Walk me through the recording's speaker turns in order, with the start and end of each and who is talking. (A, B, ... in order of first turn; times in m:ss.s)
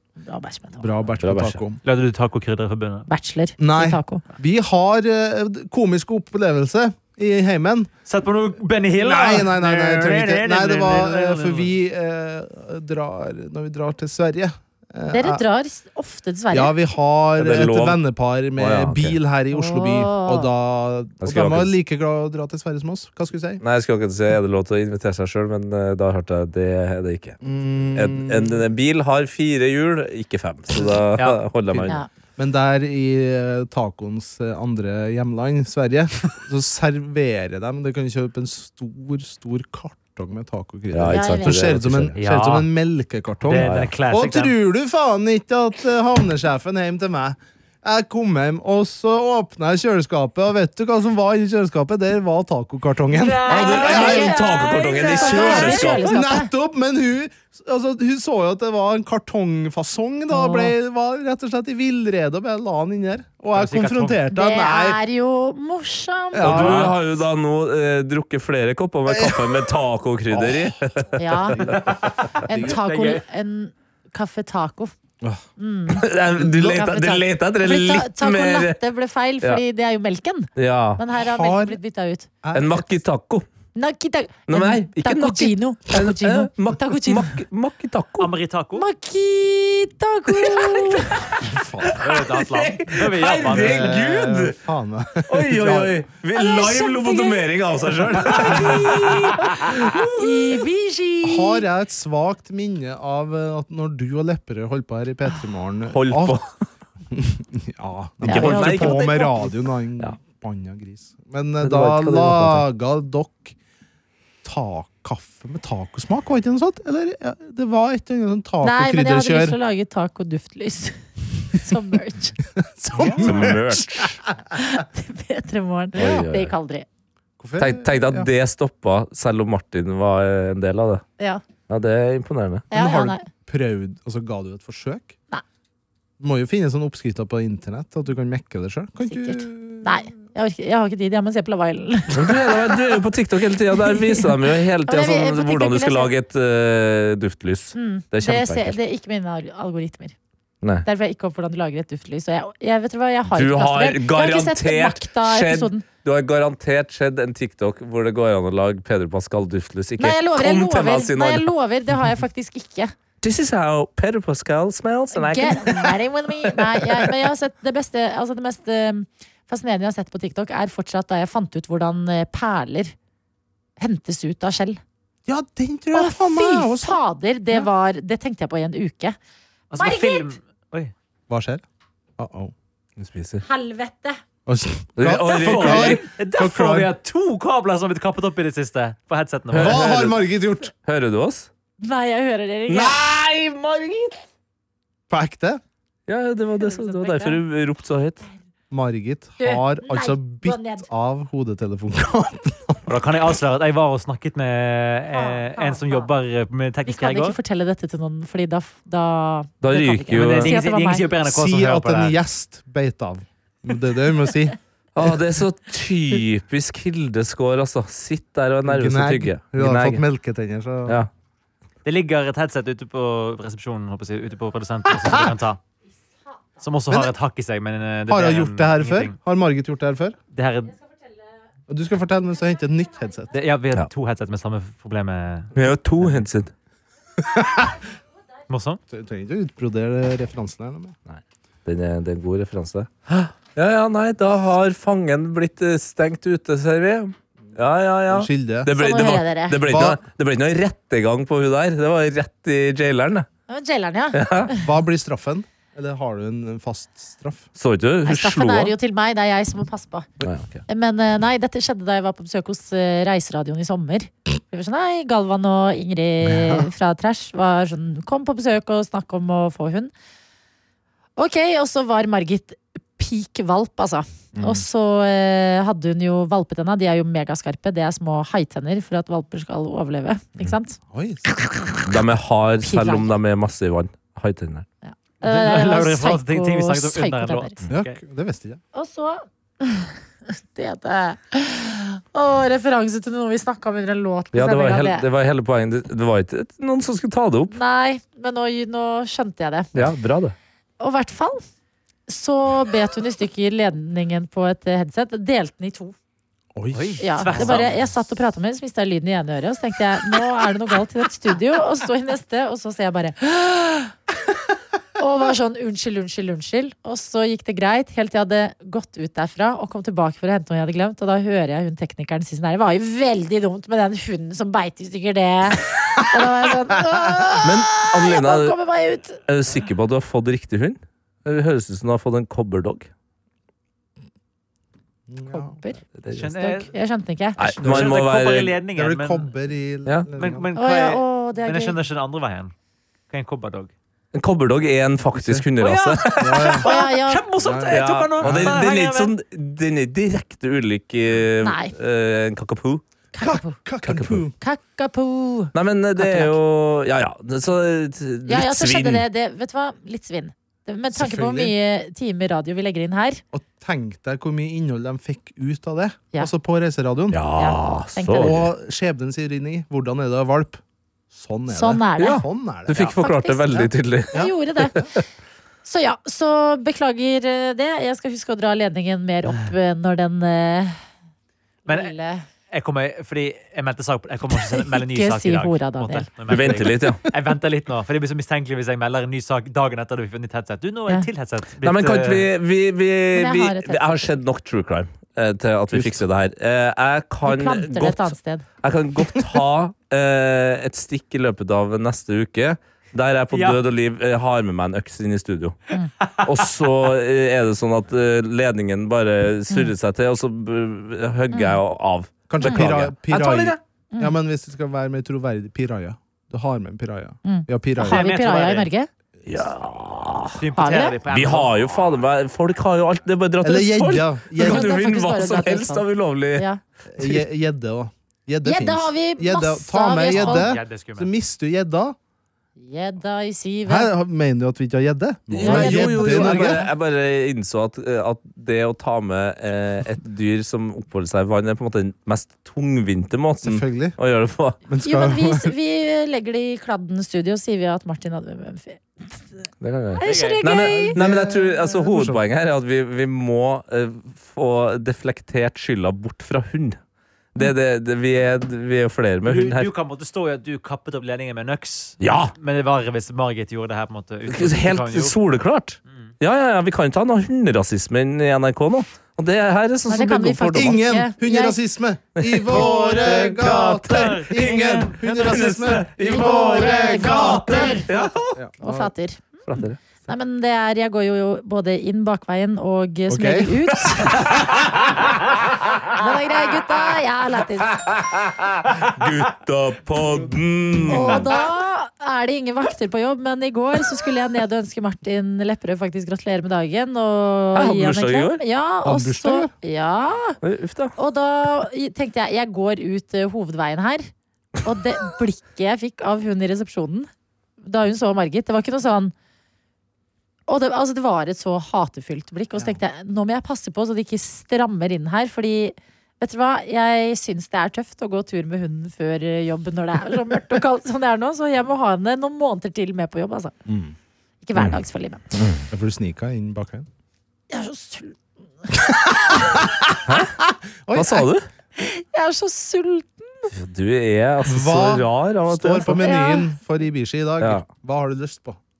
0:00.2-0:00.9 A
0:00.8-0:01.8 B
0:01.2-0:01.6 C
0:01.8-0:03.1 D
0:03.1-0:04.2 A
0:03.6-0:07.9 B
0:08.1-0:11.7 D
0:09.0-0:15.4 B
0:15.1-0:16.7 A
0:16.5-0:23.6 B
0:17.4-0:18.0 C
0:18.6-0:19.2 C
0:19.5-0:20.5 A
0:21.2-0:21.7 C
0:23.6-0:27.4 C
0:27.4-0:28.6 B
0:27.9-0:32.0 C
0:31.7-0:54.4 B
0:40.9-0:42.2 C
0:41.1-0:41.6 A
0:42.2-0:42.7 D
0:43.4-0:44.5 D
0:43.6-0:43.9 C
0:53.2-0:55.8 D
0:53.4-0:56.5 A
0:53.5-0:56.1 C
0:55.6-1:05.0 B
1:00.3-1:00.7 A
1:03.5-1:04.2 D
1:04.3-1:06.9 A
1:06.4-1:07.0 B
1:06.4-1:11.8 C
1:09.1-1:09.7 B
1:10.3-1:10.8 B
1:11.2-1:11.7 A
1:11.5-1:12.8 B
1:12.4-1:13.2 D
1:12.5-1:14.9 A
1:15.6-1:22.3 A
1:16.0-1:18.8 C
1:20.6-1:21.0 C
1:21.2-1:21.8 B
1:22.4-1:23.0 B
1:22.5-1:23.4 C
1:23.7-1:27.4 A
1:24.5-1:28.3 C
1:28.2-1:28.9 D
1:28.8-1:31.1 A
1:30.5-1:34.6 C
1:31.4-1:32.1 B
1:32.0-1:34.0 D
1:33.4-1:36.0 B
1:35.3-1:40.1 C
1:36.3-1:37.4 A
1:38.4-1:41.6 A
1:41.2-1:46.4 B
1:45.9-1:46.5 C
1:47.1-1:53.6 B
1:48.2-1:49.3 A
1:48.2-1:49.4 C
1:51.6-1:52.6 C
1:54.4-1:59.6 B
1:58.6-2:02.4 A
2:02.6-2:04.1 B
2:03.1-2:04.2 C
2:04.5-2:06.9 A
2:05.9-2:06.5 C
2:07.4-2:08.3 B
2:07.6-2:11.0 C
2:11.7-2:12.6 C
2:12.7-2:15.2 B
2:12.7-2:13.2 A
2:16.2-2:20.0 B
2:19.0-2:22.8 A
2:22.1-2:28.8 C
2:23.8-2:24.3 A
2:24.8-2:26.1 A
2:27.7-2:30.1 A
2:30.8-2:35.8 A
2:33.3-2:41.5 C
2:40.0-2:42.9 A
2:43.2-2:47.1 C
2:45.1-2:52.9 A
2:53.8-2:54.8 A
2:55.2-2:57.0 B
2:55.9-2:59.2 A
2:59.7-3:00.9 D
2:59.7-3:00.3 A
3:01.3-3:01.6 B
3:02.2-3:02.5 B
3:03.0-3:03.4 C
3:03.4-3:04.2 A
3:04.4-3:06.9 B
3:05.0-3:06.0 C
3:05.4-3:09.9 D
3:09.5-3:11.5 C
3:09.5-3:10.7 B
3:11.8-3:13.0 A
3:12.7-3:14.2 C
3:15.1-3:15.6 B
3:16.1-3:18.2 C
3:16.6-3:17.4 A
3:18.7-3:22.9 B
3:19.4-3:20.9 A
3:22.9-3:27.4 D
3:25.1-3:26.1 A
3:26.9-3:31.1 A
3:29.6-3:30.6 C
3:30.1-3:32.2 D
3:31.2-3:34.6 B
3:34.9-3:40.0 C
3:38.6-3:41.0 B
3:41.8-3:45.6 D
3:46.6-3:49.2 D
3:48.1-3:50.2 B
3:50.3-3:50.8 D
3:51.7-3:53.3 B
3:53.3-3:55.5 D
3:55.5-3:56.5 C
3:57.3-3:57.7 B
3:58.5-3:58.8 D
3:58.9-4:01.0 B
4:01.1-4:13.3 C
4:08.1-4:08.7 B
4:08.8-4:09.6 A
4:09.6-4:10.0 B
4:13.5-4:14.6 A
4:14.1-4:14.5 C
4:14.6-4:17.5 B
4:17.6-4:18.7 C
4:18.0-4:20.1 A
4:20.2-4:20.6 C
4:20.7-4:29.9 A
4:26.2-4:26.7 B
4:31.2-4:40.8 A
4:34.4-4:34.6 B
4:40.9-4:41.2 B
4:41.4-4:41.8 A
4:41.9-4:44.6 C
4:42.6-4:43.1 A
4:44.8-4:47.6 A
4:45.2-4:48.0 D
4:47.7-4:48.6 B
4:48.7-4:55.1 A
4:54.3-4:57.6 C
4:57.5-4:59.7 A
4:59.7-5:00.4 C
5:00.8-5:01.4 A
5:02.1-5:05.9 A
5:06.5-5:07.6 B
5:06.7-5:07.7 D
5:07.0-5:13.9 A
5:15.0-5:29.2 A
5:27.4-5:28.6 C
5:29.2-5:32.9 C
5:35.1-5:35.6 B
5:35.3-5:35.8 A
5:36.0-5:36.3 C
5:36.1-5:36.7 D
5:36.3-5:37.6 A
5:37.4-5:38.5 C
5:37.6-5:39.3 D
5:37.6-5:38.1 B
5:38.7-5:40.5 B
5:40.2-5:42.5 D
5:40.6-5:41.8 A
5:43.1-5:43.7 D
5:44.1-5:46.3 C
5:45.1-5:45.5 B
5:45.6-5:49.1 D
5:46.2-5:46.6 B
5:46.6-5:47.2 A
5:47.4-5:48.7 B
5:47.7-5:52.8 C
5:51.4-5:51.7 A
5:53.1-5:53.6 A
5:53.2-5:54.3 B
5:53.8-5:54.2 C
5:54.4-5:56.3 A
5:55.5-5:59.0 C
5:58.2-6:03.2 A
6:00.9-6:01.5 B
6:03.3-6:07.2 B
6:07.1-6:08.5 C
6:07.4-6:08.4 A
6:08.2-6:12.7 B
6:11.5-6:14.9 A
6:12.0-6:14.9 C
6:13.5-6:14.9 B
6:15.6-6:20.8 A
6:21.6-6:22.2 A
6:21.7-6:21.9 D
6:22.5-6:32.3 D
6:24.6-6:26.1 A
6:26.3-6:27.0 C
6:31.6-6:45.6 C
6:33.1-6:34.0 A
6:35.7-6:36.0 B
6:37.2-6:38.4 A
6:43.3-6:43.6 D
6:46.2-6:53.6 C
6:51.3-6:51.6 A
6:52.3-6:58.1 B
6:52.4-6:52.6 A
6:57.2-6:58.9 A
6:57.8-6:58.7 D
6:59.3-7:00.4 C
7:00.4-7:01.6 D
7:00.6-7:01.0 A
7:01.1-7:06.5 C
7:03.4-7:04.7 B
7:04.4-7:06.6 A
7:06.9-7:12.0 B
7:08.4-7:10.5 A
7:10.1-7:11.1 D
7:12.6-7:13.9 A
7:13.6-7:16.6 B
7:15.3-7:24.6 C
7:15.4-7:16.7 A
7:23.4-7:24.0 B
7:24.6-7:25.5 B
7:24.8-7:29.4 A
7:29.6-7:36.8 C
7:30.0-7:31.0 A
7:30.0-7:30.5 D
7:30.6-7:32.2 B
7:37.4-7:39.7 C
7:39.2-7:45.2 D
7:42.0-7:42.3 C
7:44.3-7:50.8 C
7:49.9-7:51.6 A
7:50.5-7:57.8 B
7:52.2-7:58.4 C
7:52.5-7:55.0 D
7:56.0-7:57.8 A
7:58.3-7:58.9 B
7:58.6-7:59.4 A
7:59.5-7:59.8 C
8:00.1-8:04.3 A
8:03.1-8:03.5 B
8:05.9-8:07.8 A
8:07.8-8:11.3 C
8:10.9-8:20.4 A
8:17.5-8:18.4 C
8:18.8-8:19.5 B
8:20.4-8:20.9 C
8:21.0-8:24.1 A
8:24.6-8:27.1 A
8:27.6-8:29.1 A
8:30.5-8:43.5 A
8:43.7-8:43.9 B
8:44.4-8:45.2 A
8:45.4-8:45.6 C
8:45.7-8:46.9 B
8:47.5-8:48.8 A
8:50.0-8:50.4 C
8:50.1-8:51.3 B
8:50.9-8:51.4 C
8:51.8-8:53.5 A
8:53.5-8:56.0 C
8:54.4-8:58.6 B
8:55.9-8:56.5 A
8:57.4-8:57.7 C